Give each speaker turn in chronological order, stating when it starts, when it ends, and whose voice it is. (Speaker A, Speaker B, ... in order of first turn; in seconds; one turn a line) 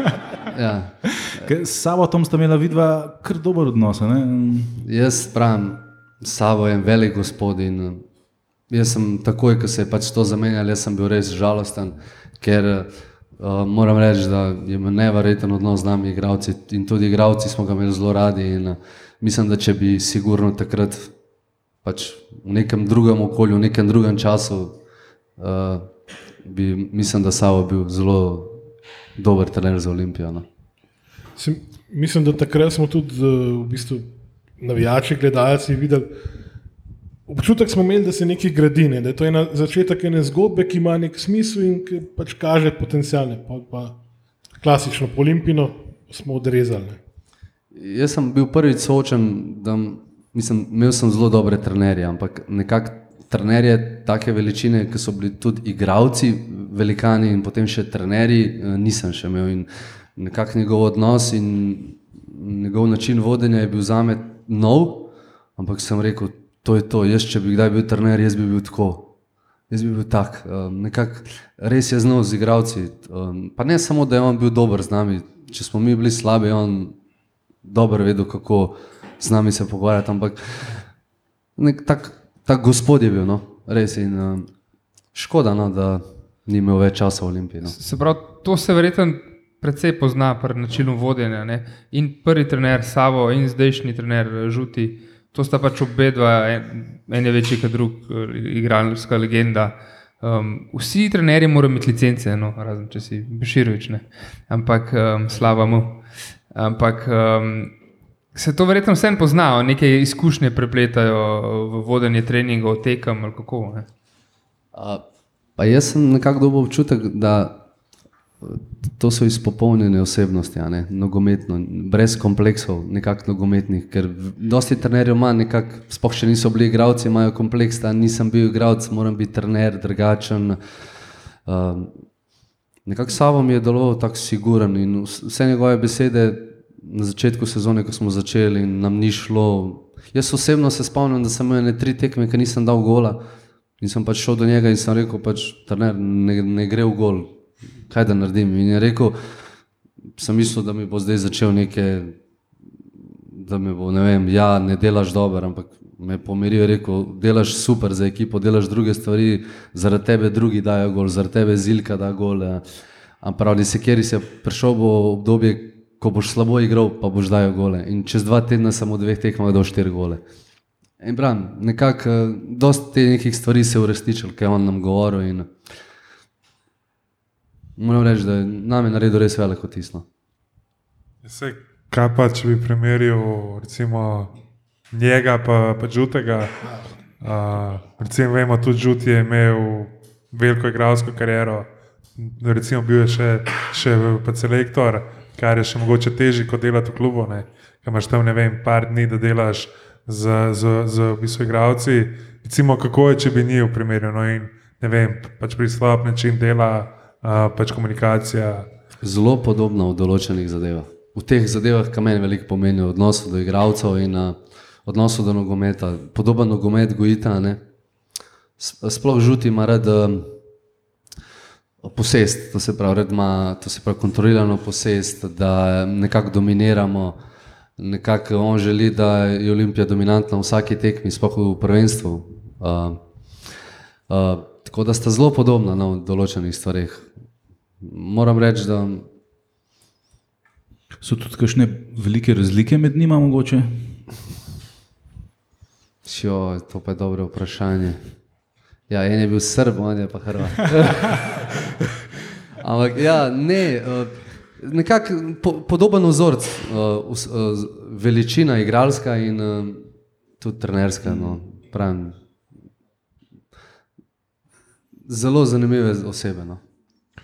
Speaker A: 0.5-1.5
Speaker B: 1.2-4.8
Speaker A: 4.8-8.0
Speaker A: 8.7-21.1
Speaker A: 21.8-24.8
Speaker A: 25.4-25.9
Speaker A: 26.4-28.6
Speaker A: 29.2-30.4
Speaker C: 31.4-34.0
Speaker C: 34.6-36.1
Speaker C: 37.3-44.0
Speaker C: 44.6-47.0
Speaker A: 47.7-69.1
Speaker A: 69.7-76.9
Speaker A: 77.6-80.8
Speaker A: 81.6-84.5
Speaker A: 85.1-87.8
Speaker D: 87.8-106.0
Speaker D: 106.5-107.7
Speaker D: 108.3-113.9
Speaker A: 114.7-115.0
Speaker A: 115.6-117.6
Speaker A: 118.4-130.6
Speaker A: 131.4-131.9
Speaker A: 132.8-143.2
Speaker A: 143.8-147.3
Speaker A: 147.9-149.1
Speaker A: 150.2-152.2
Speaker A: 153.3-162.6
Speaker A: 163.2-170.2
Speaker A: 171.0-175.5
Speaker A: 177.8-180.0
Speaker E: 181.2-184.3
Speaker E: 184.9-186.5
Speaker E: 187.2-191.7
Speaker E: 192.2-208.7
Speaker A: 209.0-217.6
Speaker A: 218.6-220.3
Speaker A: 221.8-227.2
Speaker A: 227.8-233.0
Speaker A: 234.1-237.1
Speaker A: 237.8-239.1
Speaker B: 241.0-244.0
Speaker A: 246.0-248.0
Speaker A: 248.9-251.2
Speaker A: 252.6-259.8
Speaker A: 260.4-262.1
Speaker A: 265.1-266.6